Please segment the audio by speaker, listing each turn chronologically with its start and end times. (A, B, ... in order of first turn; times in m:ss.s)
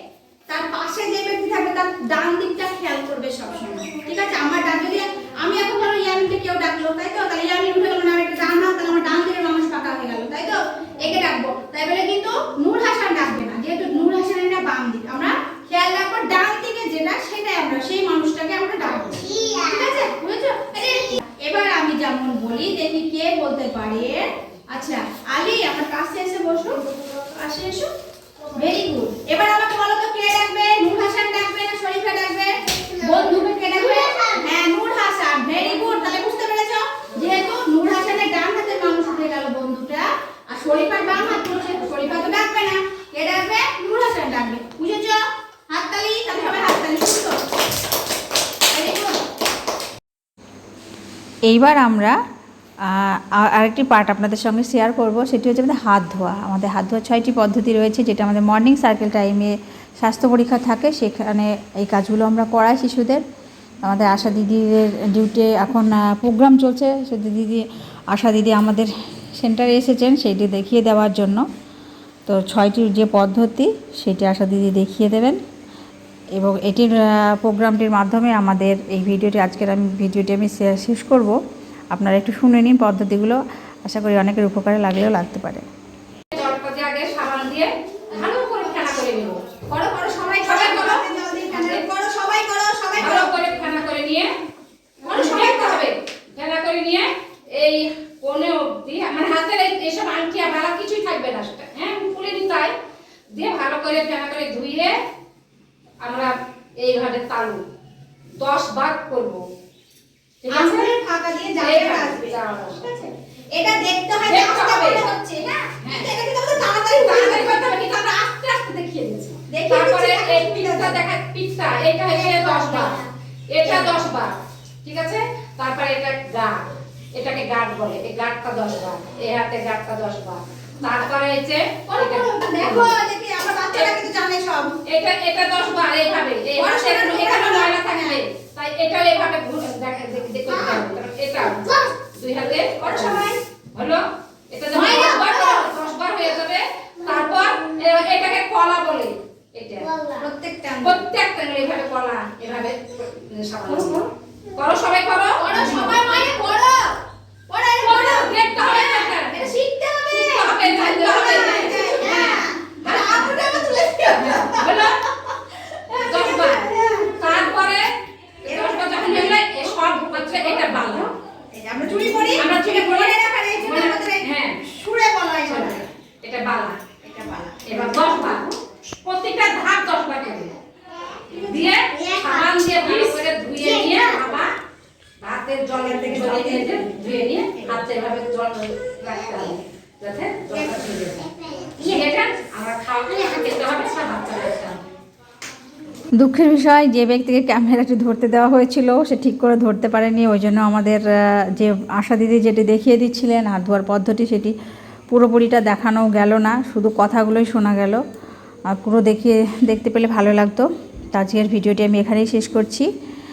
0:00.5-0:26.8 A
0:18.8-0:20.1 B
0:27.3-0:27.9 A
0:28.5-0:47.4 A
0:32.7-0:34.4 B
0:48.7-0:49.2 A
0:51.5-0:52.2 C
0:52.9-1:03.2 C
1:03.8-1:11.4 C
1:12.2-1:15.4 C
1:16.3-1:21.4 C
1:21.9-1:25.6 C
1:26.3-1:29.4 D
1:29.7-1:33.3 A
1:30.4-1:31.8 D
1:33.0-1:34.3 D
1:35.0-1:35.8 A
1:35.0-1:42.7 D
1:43.3-1:44.9 D
1:46.0-1:47.6 D
1:48.4-1:49.4 D
1:50.4-1:50.9 D
1:50.5-1:52.4 A
1:51.6-1:53.1 D
1:53.5-1:58.2 A
1:54.2-1:55.0 D
1:55.8-2:03.0 D
1:59.5-2:01.0 A
2:02.1-2:03.0 B
2:02.4-2:02.7 A
2:03.5-2:12.9 D
2:03.6-2:04.0 A
2:11.9-2:14.8 A
2:14.9-2:21.6 D
2:16.6-2:18.2 A
2:20.5-2:20.8 B
2:21.4-2:21.9 B
2:22.1-2:29.9 D
2:22.8-2:23.4 A
2:24.7-2:25.7 A
2:27.0-2:27.9 B
2:29.8-2:30.3 B
2:30.2-2:31.0 A
2:30.8-2:36.2 D
2:35.4-2:36.9 A
2:37.5-2:44.9 A
2:37.8-2:39.4 D
2:40.1-2:43.4 D
2:44.1-2:45.0 D
2:45.9-2:47.5 A
2:45.9-2:47.9 D
2:48.4-2:51.1 D
2:48.5-2:49.3 A
2:51.5-2:55.8 A
2:51.8-2:54.6 D
2:55.4-2:56.8 D
2:57.0-2:58.3 A
2:57.6-3:00.5 D
3:01.3-3:04.5 D
3:01.9-3:04.4 B
3:05.2-3:11.2 D
3:06.0-3:06.6 C
3:09.1-3:09.5 B
3:10.5-3:12.1 B
3:11.8-3:14.8 D
3:16.1-3:24.5 C
3:25.1-3:28.0 C
3:28.7-3:32.9 C